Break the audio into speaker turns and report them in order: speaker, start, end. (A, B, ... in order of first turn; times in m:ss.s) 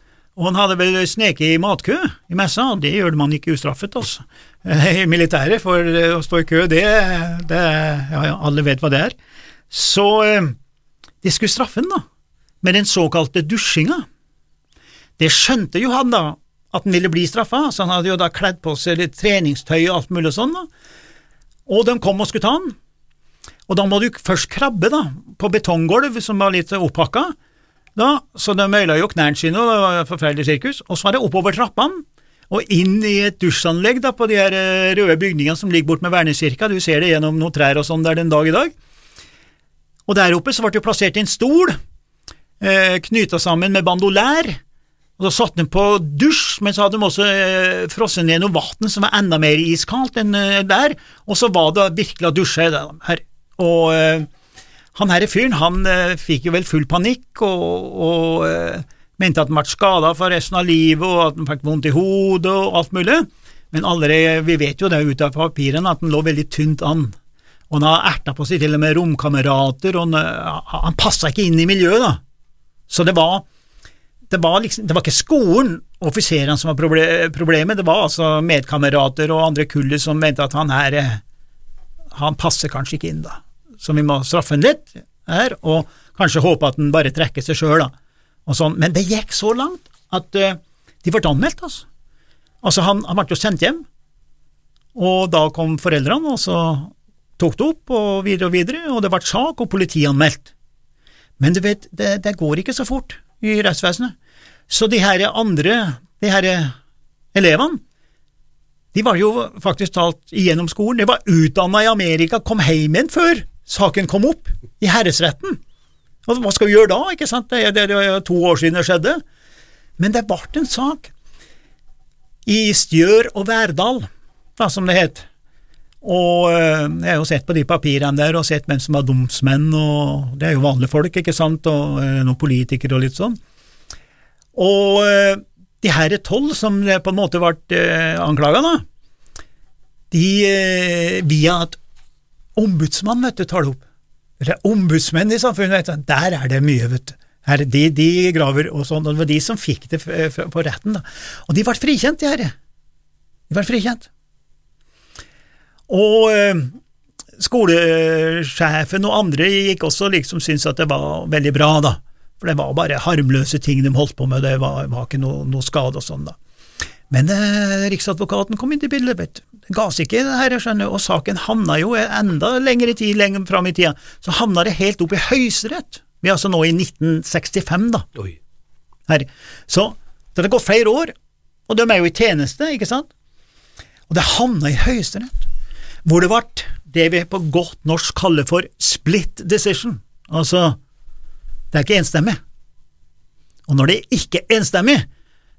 0:00.4-0:09.1 A
0:09.7-0:10.5 A
0:11.2-0:12.0 A
0:12.6-0:14.0 A
0:15.2-0:20.7 A
0:21.7-0:22.7 A
0:23.7-0:27.3 A
0:28.0-0:38.7 A
0:40.0-0:41.8 A
0:42.6-0:44.6 A
0:45.2-0:54.3 A
0:54.9-1:07.1 A
1:07.7-1:12.2 A
1:12.9-1:13.4 A
1:14.3-1:21.2 A
1:22.1-1:27.9 A
1:28.4-1:31.8 A
1:32.6-1:33.8 A
1:34.9-1:40.5 A
1:41.4-1:44.1 A
1:44.7-1:46.7 A
1:47.3-1:47.8 A
1:48.9-1:55.6 A
1:56.2-1:59.2 A
2:00.0-2:01.1 A
2:02.4-2:04.1 A
2:04.6-2:05.3 A
2:06.0-2:13.4 A
2:14.5-2:18.8 A
2:20.1-2:21.8 A
2:22.6-2:23.8 A
2:24.4-2:32.5 A
2:33.5-2:34.1 A
2:35.9-2:36.8 A
2:37.4-2:46.4 A
2:47.1-2:58.1 A
2:59.1-3:01.1 A
3:01.7-3:03.1 A
3:04.1-3:05.4 A
3:06.0-3:10.8 A
3:11.7-3:12.4 A
3:13.6-3:15.0 A